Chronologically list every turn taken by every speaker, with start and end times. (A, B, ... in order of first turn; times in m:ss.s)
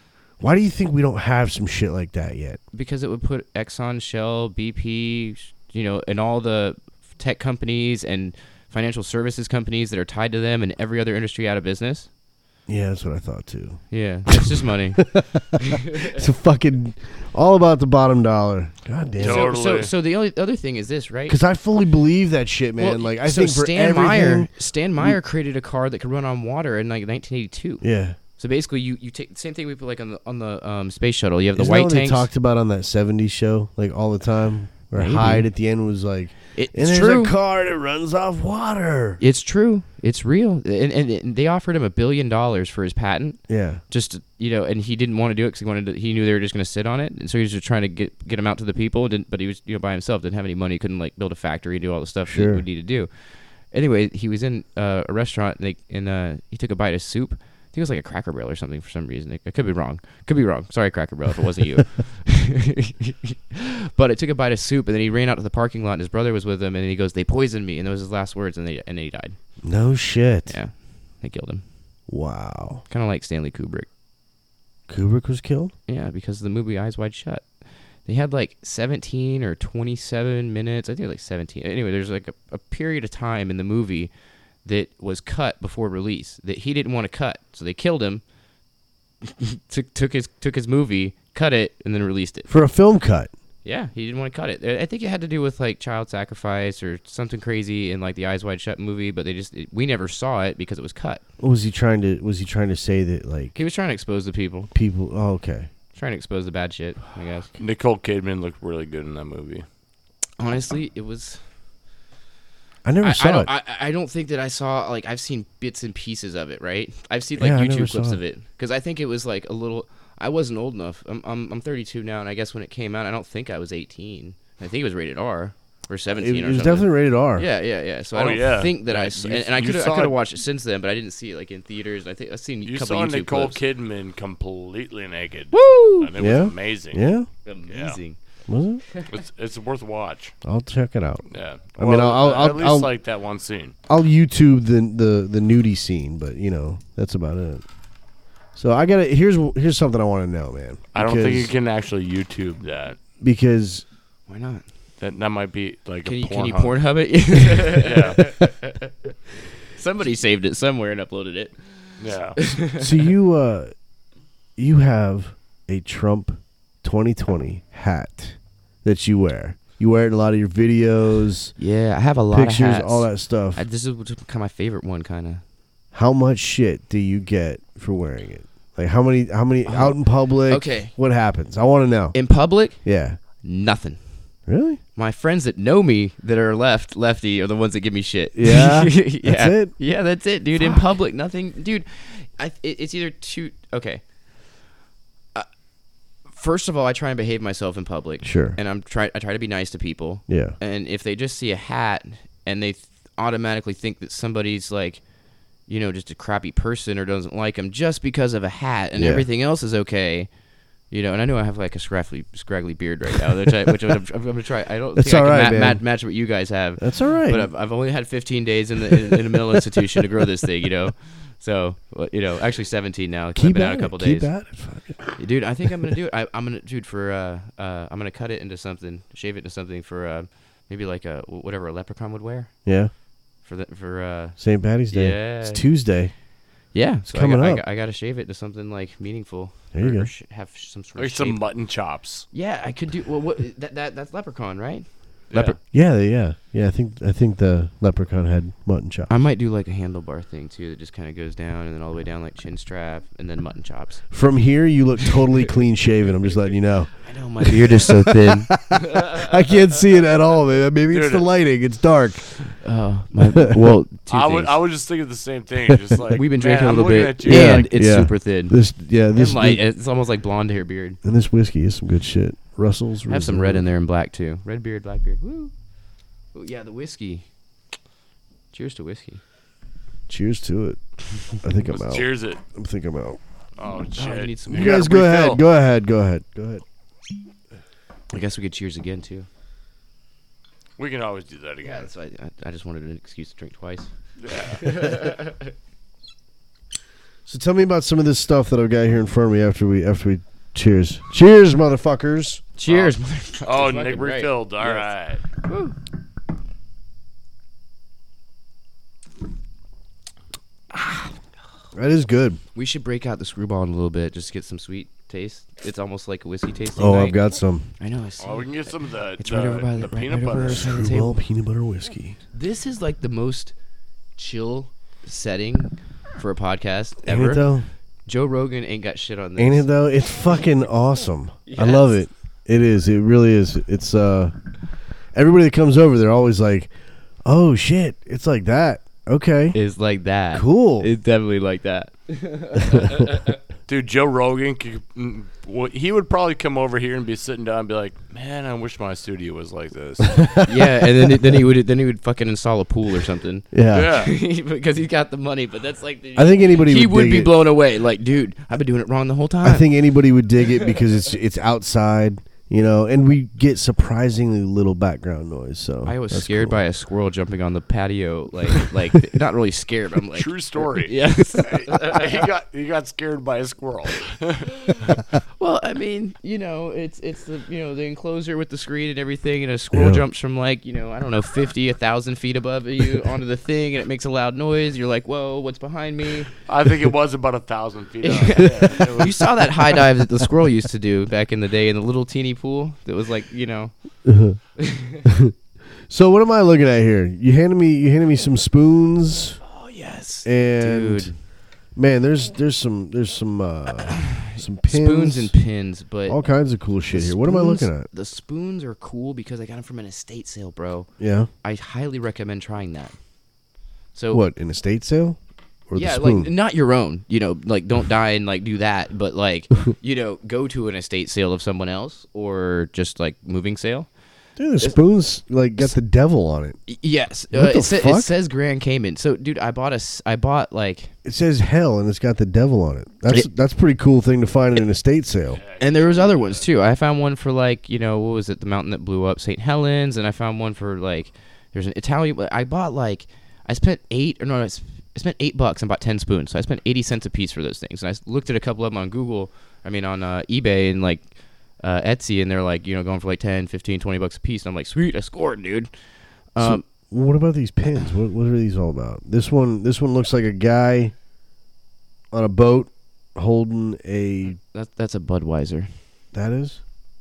0:00.4-0:02.6 A
0:02.7-0:12.1 B
0:12.7-0:19.5 A
0:13.9-0:16.2 B
0:19.2-0:19.9 C
0:19.2-0:21.4 B
0:21.3-0:25.2 A
0:22.8-0:27.8 B
0:27.8-0:28.2 A
0:28.4-0:32.3 B
0:31.5-0:39.2 A
0:34.9-0:35.5 B
0:36.5-0:37.3 B
0:39.2-1:09.4 B
0:43.5-0:43.8 A
0:52.3-0:52.6 A
1:09.6-1:10.5 A
1:10.5-1:11.6 B
1:12.1-1:12.8 A
1:12.9-1:13.9 B
1:14.9-1:15.7 A
1:15.9-1:17.5 B
1:18.0-1:24.1 B
1:24.6-1:28.2 B
1:29.2-1:32.5 B
1:32.5-1:33.3 A
1:33.6-1:41.2 B
1:41.4-1:43.6 A
1:43.5-1:44.7 B
1:44.7-1:45.7 A
1:45.9-1:47.5 B
1:47.6-1:49.6 C
1:50.4-1:51.4 B
1:52.8-1:53.5 A
1:53.0-2:13.6 B
1:57.4-1:58.2 A
2:06.2-2:07.4 A
2:08.1-2:10.1 C
2:12.6-2:17.1 C
2:15.5-2:16.1 B
2:16.2-2:17.3 A
2:17.4-2:18.2 B
2:17.7-2:18.0 C
2:18.5-2:18.8 A
2:19.1-2:20.3 C
2:20.4-2:21.2 A
2:21.3-2:23.7 C
2:21.8-2:22.9 A
2:23.9-2:27.6 A
2:28.5-2:31.5 A
2:30.9-2:33.0 C
2:33.2-2:33.8 A
2:34.3-2:34.6 B
2:35.0-2:36.8 C
2:36.0-2:39.1 B
2:37.7-2:38.3 C
2:39.7-2:42.9 B
2:42.0-2:42.4 C
2:42.8-2:43.7 A
2:44.6-2:51.5 A
2:51.6-2:55.4 B
2:52.3-2:53.6 A
2:55.9-3:02.2 A
2:59.6-3:00.9 B
3:02.1-3:04.0 B
3:02.8-3:03.2 A
3:04.5-3:04.8 A
3:05.0-3:14.0 B
3:08.3-3:09.7 A
3:10.5-3:10.8 A
3:16.3-3:25.0 B
3:18.2-3:18.6 A
3:20.3-3:20.6 A
3:25.7-3:30.3 B
3:29.0-3:29.2 A
3:30.9-3:44.3 B
3:35.0-3:35.8 A
3:36.8-3:37.5 A
3:43.3-3:45.0 A
3:45.2-3:52.5 B
3:52.6-3:52.9 A
3:53.4-3:55.6 B
3:54.4-3:56.1 A
3:56.7-4:01.4 B
3:57.1-3:57.6 A
3:59.7-4:00.1 A
4:01.0-4:02.3 C
4:02.3-4:05.6 B
4:05.3-4:05.6 C
4:05.7-4:09.1 A
4:09.1-4:14.1 B
4:14.1-4:22.6 A
4:17.0-4:19.1 B
4:20.9-4:21.2 C
4:22.6-4:24.6 B
4:24.1-4:27.7 C
4:25.7-4:26.0 A
4:26.1-4:28.6 B
4:27.2-4:29.6 A
4:29.1-4:31.0 B
4:31.0-4:33.6 A
4:33.1-4:35.5 B
4:36.3-4:37.2 B
4:38.5-4:39.2 B
4:40.1-4:43.2 A
4:41.6-4:42.4 C
4:43.6-4:45.4 C
4:44.0-4:44.9 B
4:44.5-4:46.6 A
4:48.1-4:49.3 B
4:50.8-4:51.9 C
4:51.6-4:53.9 B
4:54.2-4:54.7 C
4:54.5-4:55.5 B
4:57.2-5:02.4 A
5:02.6-5:05.8 B
5:02.7-5:02.9 C
5:03.4-5:05.2 C
5:11.7-5:12.4 A
5:12.5-5:17.3 B
5:16.8-5:17.7 A
5:17.8-5:21.2 B
5:18.2-5:20.8 C
5:20.1-5:22.2 A
5:22.3-5:23.5 B
5:24.2-5:27.4 B
5:27.0-5:27.7 A
5:28.1-5:29.7 B
5:29.4-5:34.3 A
5:31.4-5:32.0 B
5:35.1-5:36.7 A
5:37.2-5:39.6 A
5:39.5-5:43.4 B
5:40.3-5:40.9 A
5:42.6-5:43.0 A
5:43.7-5:50.3 C
5:50.1-5:51.4 A
5:50.5-5:59.7 B
5:53.5-5:53.9 A
5:53.7-5:54.1 C
5:56.2-5:57.3 A
5:59.4-6:06.6 A
6:05.8-6:12.2 B
6:10.1-6:15.0 C
6:15.4-6:26.3 B
6:19.7-6:20.0 A
6:26.4-6:29.3 C
6:28.0-6:33.9 B
6:34.0-6:34.4 A
6:34.6-6:35.1 B
6:35.0-6:35.3 A
6:35.9-6:39.4 A
6:39.4-6:41.2 B
6:40.2-6:41.1 A
6:41.7-6:45.3 A
6:43.9-6:46.2 B
6:46.1-6:47.9 A
6:46.9-6:50.9 B
6:51.0-6:51.3 A
6:51.4-6:52.9 B
6:53.9-6:54.2 B
6:54.1-6:55.2 A
6:55.7-6:56.3 A
6:55.7-7:03.9 B
7:04.4-7:06.6 A
7:06.7-7:10.9 B
7:07.3-7:08.1 A
7:11.0-7:15.4 A
7:15.3-7:16.5 C
7:15.6-7:35.7 B
7:36.3-7:36.6 B
7:36.4-7:40.9 A
7:42.1-7:44.4 A
7:44.5-7:45.7 B
7:46.1-7:46.6 A